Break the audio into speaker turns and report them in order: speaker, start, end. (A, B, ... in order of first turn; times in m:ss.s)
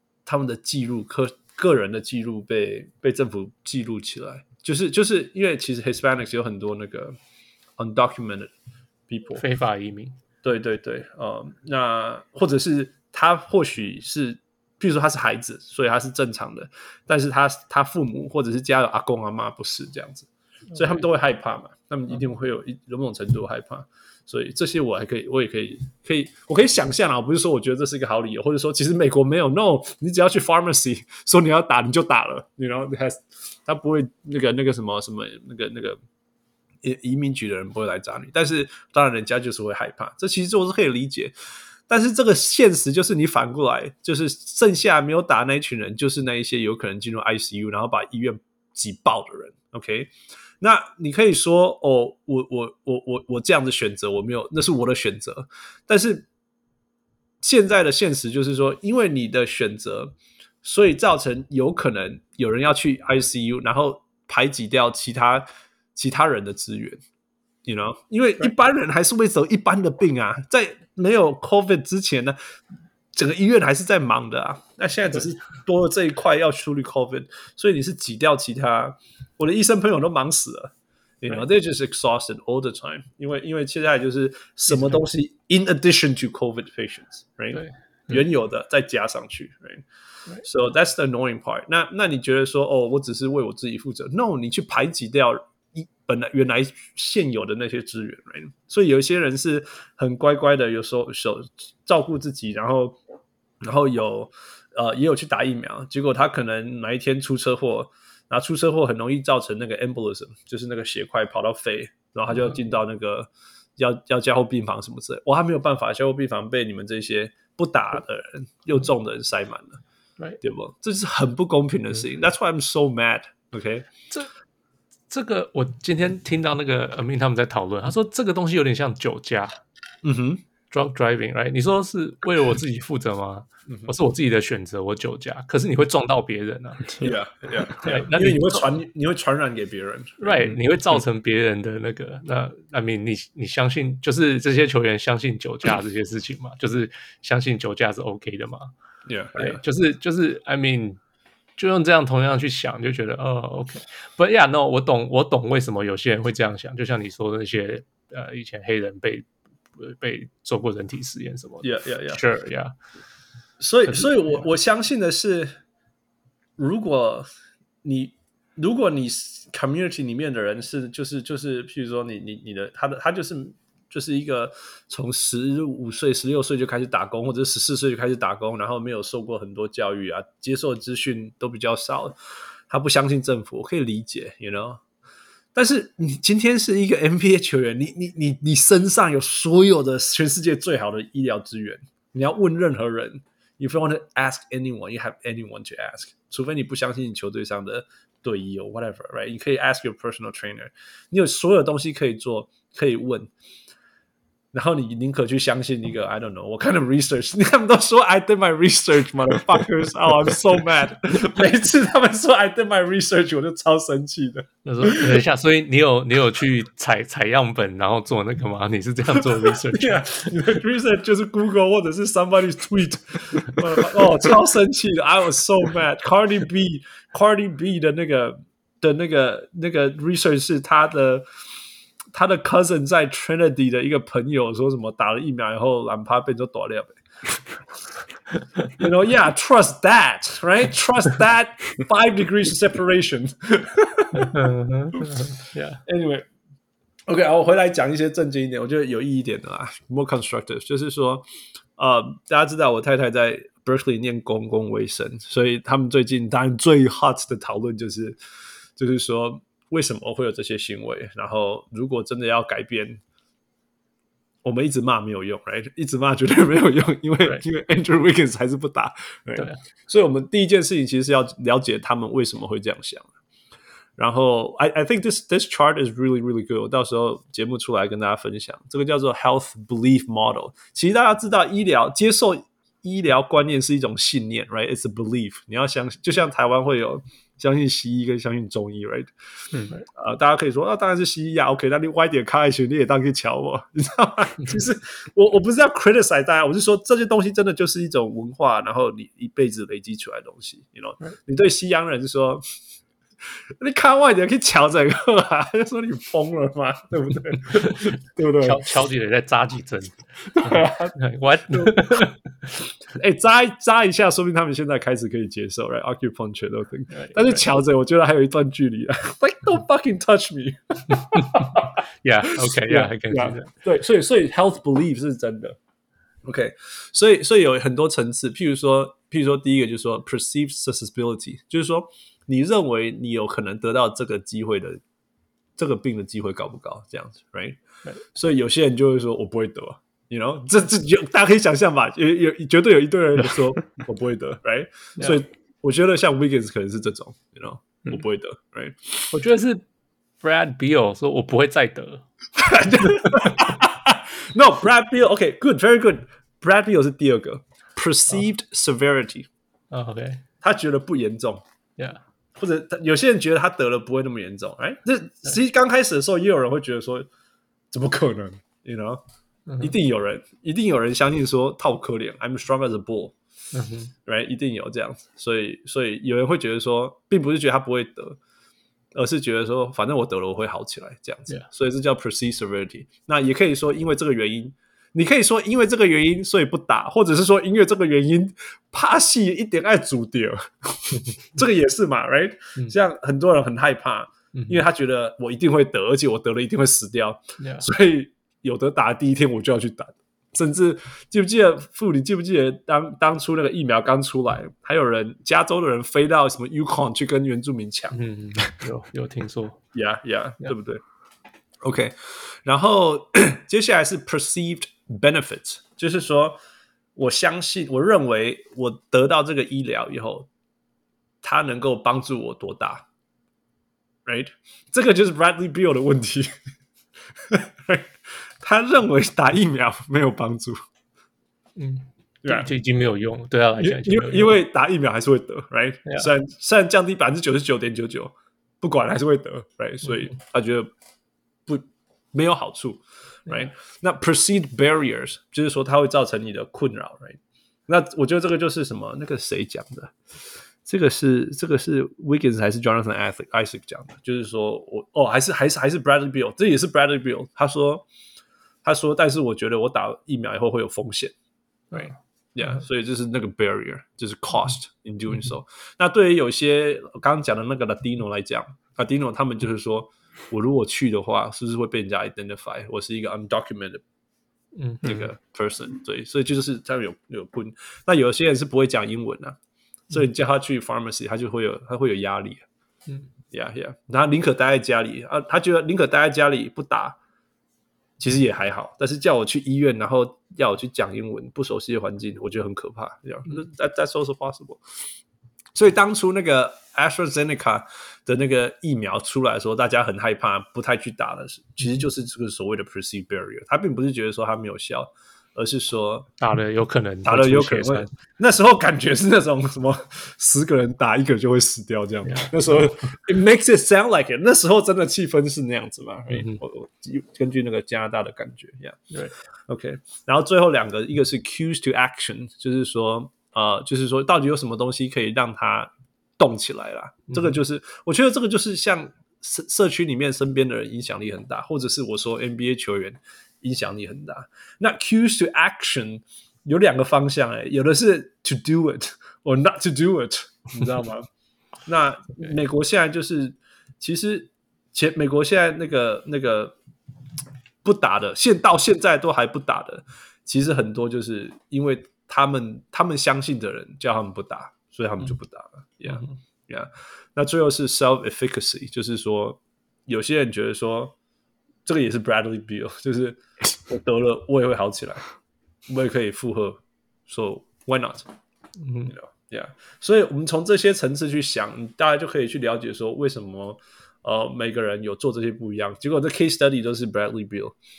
0:00.2-0:07.2 A
0:07.8-0:08.5 A
0:09.1-0:09.4 A
0:09.4-0:10.2 B
0:10.4-0:36.0 A
0:36.8-0:41.3 A
0:41.9-0:56.3 A
0:57.4-1:07.0 A
1:07.6-1:12.4 A
1:13.1-1:29.8 A
1:24.7-1:25.0 B
1:30.4-1:43.0 A
1:43.6-1:59.8 A
2:00.4-2:03.9 A
2:05.1-2:09.6 B
2:10.0-2:10.4 A
2:10.7-2:17.1 B
2:13.7-2:13.9 A
2:17.0-2:20.4 A
2:17.8-2:18.6 B
2:20.2-2:28.7 B
2:29.0-2:29.6 A
2:29.4-2:31.0 B
2:31.6-2:42.7 B
2:41.6-2:42.2 A
2:43.6-2:45.5 A
2:43.9-2:44.4 B
2:46.6-2:47.3 A
2:47.8-3:02.2 A
3:02.7-3:04.8 A
3:05.5-3:23.3 A
3:24.5-3:35.2 A
3:34.6-3:40.4 B
3:39.1-3:51.2 A
3:52.1-3:57.0 A
3:58.8-4:04.4 A
4:04.1-4:05.8 B
4:05.8-4:06.2 A
4:07.1-4:11.2 A
4:11.8-4:18.2 A
4:18.8-4:23.0 A
4:24.4-4:33.1 A
4:34.0-4:49.1 A
4:49.9-5:02.4 A
5:03.6-5:08.6 A
5:07.5-5:12.6 B
5:10.3-5:11.0 A
5:11.5-5:12.1 A
5:12.9-5:25.6 A
5:16.9-5:17.4 B
5:20.9-5:23.5 B
5:26.2-5:34.8 A
5:35.6-5:37.6 A
5:38.1-5:49.1 A
5:49.1-5:49.6 B
5:50.2-5:52.0 B
5:52.4-5:59.3 A
5:52.8-5:53.4 B
5:59.7-6:00.2 B
6:00.4-6:01.4 A
6:02.4-6:07.1 A
6:07.7-6:09.0 A
6:09.5-6:09.7 B
6:09.6-6:13.2 A
6:13.5-6:13.9 B
6:14.0-6:18.2 A
6:18.9-6:48.0 A
6:34.3-6:34.6 B
6:37.4-6:37.7 B
6:47.9-6:49.6 B
6:49.7-6:50.8 A
6:51.6-6:56.4 A
6:57.0-7:00.3 A
7:01.2-7:02.8 A
7:04.0-7:06.3 A
7:07.2-7:10.6 A
7:11.6-7:14.4 B
7:12.2-7:12.5 A
7:13.6-7:20.7 A
7:21.4-7:29.9 A
7:30.6-7:37.8 A
7:38.6-7:41.1 A
7:41.7-7:53.8 A
7:54.5-7:55.1 B
7:54.8-7:59.4 A
7:59.9-8:02.4 A
8:03.3-8:07.0 A
8:08.0-8:14.6 A
8:15.5-8:26.1 A
8:26.2-8:27.9 B
8:27.0-8:38.8 A
8:32.0-8:32.7 B
8:36.1-8:36.4 B
8:39.5-9:01.1 A
8:47.1-8:47.4 B
9:01.6-9:06.6 A
9:07.6-9:20.9 A
9:21.6-9:25.0 A
9:25.7-9:28.1 A
9:28.6-9:28.9 B
9:28.9-9:37.6 A